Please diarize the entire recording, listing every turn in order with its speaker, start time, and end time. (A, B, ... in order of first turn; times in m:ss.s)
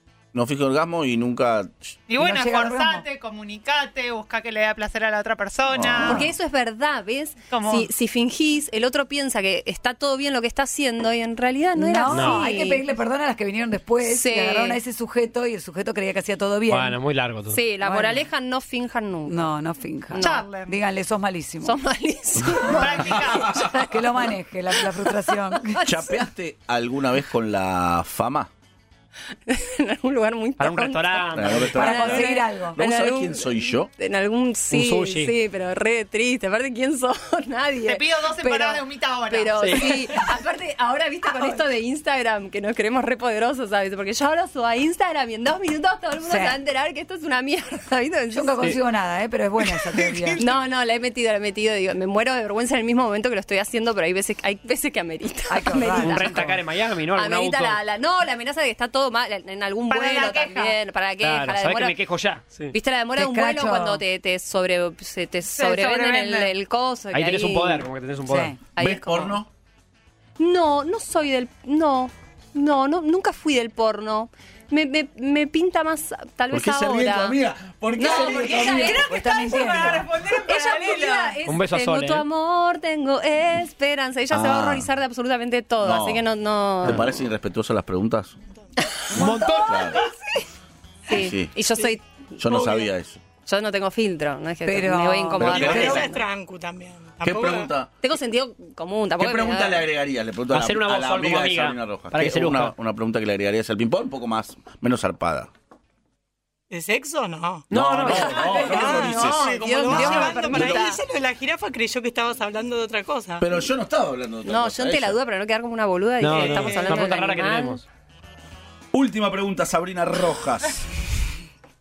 0:00.3-0:02.0 A
0:02.1-0:06.2 B
0:02.2-0:03.1 C
0:05.7-0:06.2 A
0:06.0-0:12.8 D
0:07.5-0:07.9 B
0:11.8-0:17.0 C
0:12.1-0:12.4 E
0:14.0-0:14.8 D
0:16.7-0:17.6 E
0:17.5-0:19.5 D
0:17.8-0:18.2 C
0:19.3-0:21.8 C
0:20.1-0:20.5 D
0:20.2-0:20.7 B
0:21.6-0:26.2 D
0:22.6-0:23.7 B
0:23.1-0:23.6 A
0:23.5-0:25.8 C
0:25.8-0:28.5 A
0:29.5-0:48.7 D
0:30.6-0:32.0 E
0:31.4-0:33.9 A
0:31.7-0:32.8 C
0:34.7-0:35.3 E
0:37.8-0:40.3 B
0:39.6-0:39.9 E
0:46.2-0:46.6 C
0:48.3-0:50.4 C
0:49.7-0:50.5 B
0:50.4-1:02.0 D
0:55.5-0:56.5 C
0:55.9-0:57.8 E
0:59.9-1:00.8 B
1:01.2-1:02.7 E
1:02.7-1:07.9 D
1:03.2-1:04.0 C
1:05.5-1:06.5 B
1:07.1-1:08.6 E
1:08.3-1:08.6 C
1:08.8-1:09.4 D
1:08.8-1:09.5 A
1:10.4-1:17.4 D
1:16.5-1:19.0 A
1:18.0-1:27.2 D
1:18.0-1:21.4 B
1:18.1-1:20.1 C
1:21.5-1:22.2 E
1:24.3-1:24.9 A
1:25.8-1:26.3 A
1:26.8-1:28.4 A
1:29.1-1:29.8 E
1:29.1-1:30.2 C
1:29.6-1:30.0 A
1:31.1-1:32.9 D
1:31.1-1:31.5 A
1:32.4-1:33.2 A
1:33.4-1:36.2 D
1:34.6-1:36.2 C
1:35.4-1:36.2 A
1:35.4-1:37.7 F
1:37.2-1:37.9 A
1:38.0-1:39.9 D
1:39.2-1:45.5 A
1:40.5-1:42.8 E
1:46.7-1:53.7 F
1:47.7-1:48.5 E
1:47.7-1:50.9 A
1:48.0-1:51.0 D
1:53.4-1:55.2 A
1:54.5-1:57.8 D
1:56.2-1:57.8 E
1:56.4-1:57.0 F
1:58.9-2:00.9 A